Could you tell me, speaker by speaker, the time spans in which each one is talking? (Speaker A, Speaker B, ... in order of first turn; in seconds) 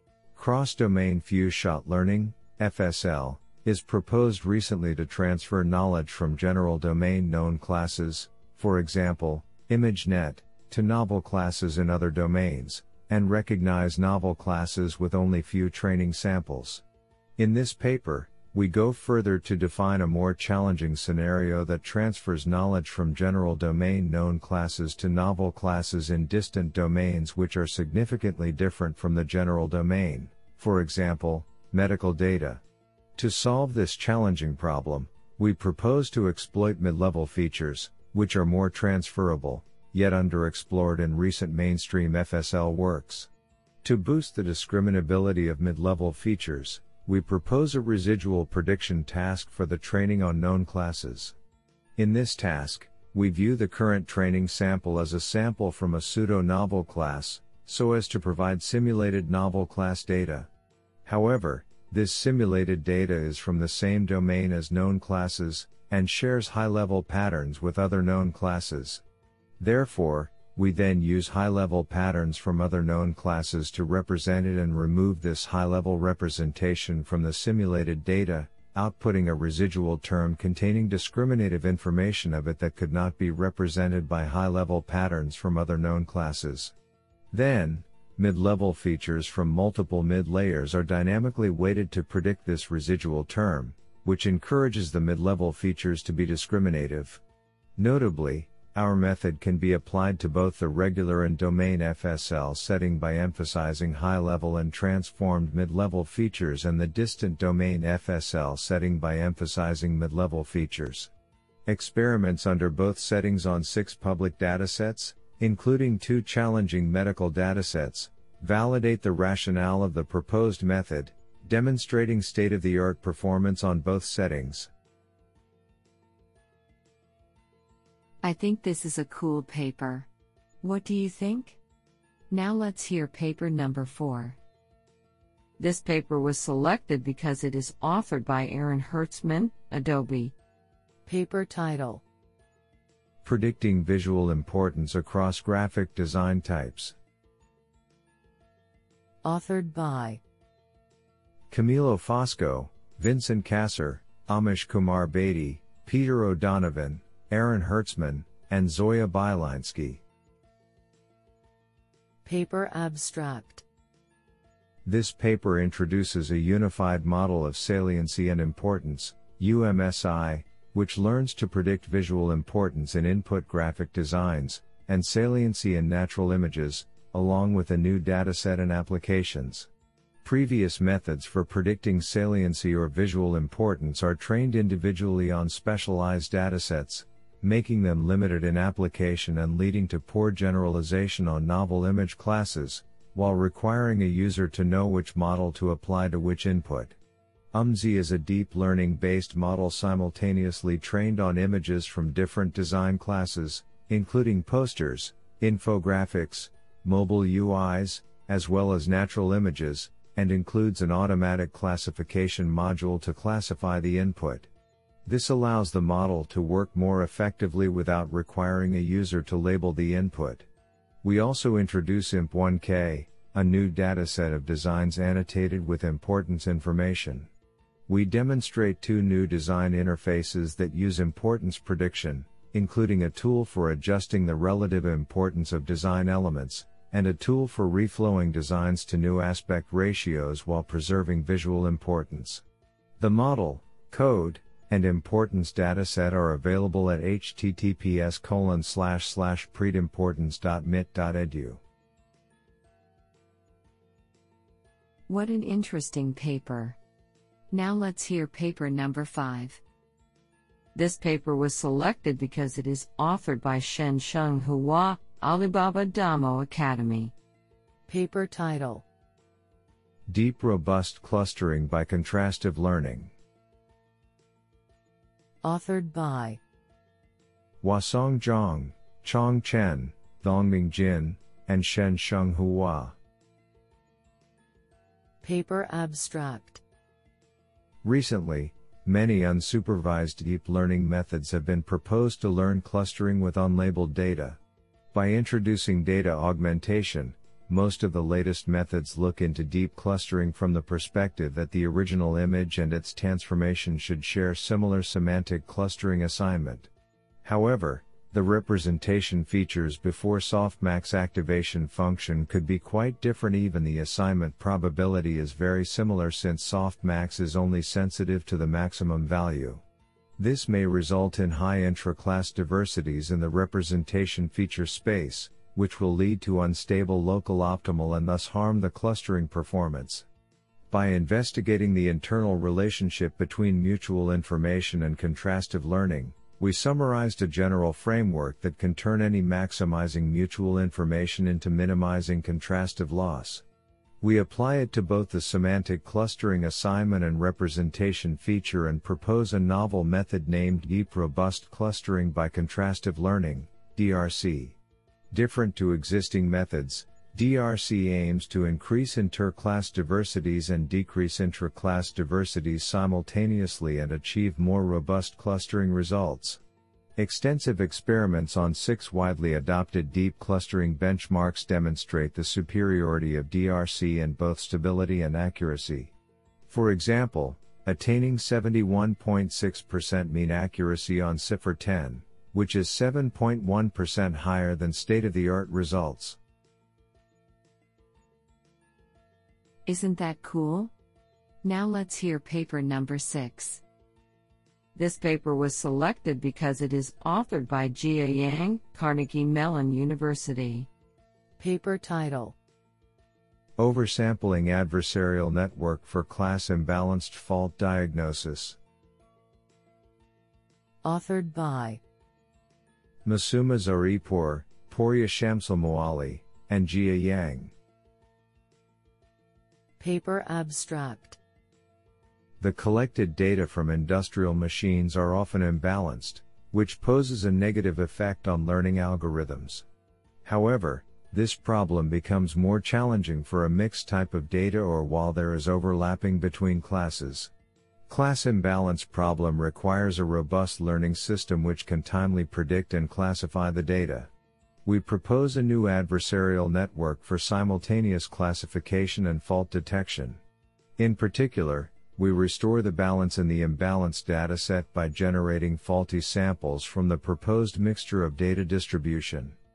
Speaker A: 0.3-16.8, 17.4-32.6, 33.2-43.3, 43.8-51.3, 52.0-60.5, 61.0-69.0, 69.6-86.7, 87.3-97.2, 97.8-111.1, 111.7-124.7, 143.2-146.9, 151.5-160.0, 164.8-179.7, 180.2-196.9, 197.5-214.5, 215.0-220.5, 221.0-227.3, 227.9-242.4, 243.0-251.6, 270.1-273.1, 277.6-282.9, 287.8-294.4, 294.9-306.7, 307.2-319.6, 320.2-330.1, 330.7-343.4, 344.0-354.6, 355.1-366.4, 367.0-375.9, 376.5-386.2, 403.6-408.6, 413.0-417.5, 422.4-429.6, 430.2-437.3, 437.9-444.1, 444.6-450.2, 450.8-459.4
Speaker B: 128.2-130.1, 130.6-131.6, 132.3-134.4, 135.6-140.3, 255.1-256.8, 257.5-259.6, 260.7-267.1, 389.6-390.7, 391.4-393.6, 394.7-400.7
Speaker C: 141.1-142.0, 149.2-150.2, 162.2-163.6, 267.9-268.8, 275.4-276.4, 285.2-286.6, 401.4-402.4, 410.8-411.8, 419.8-421.2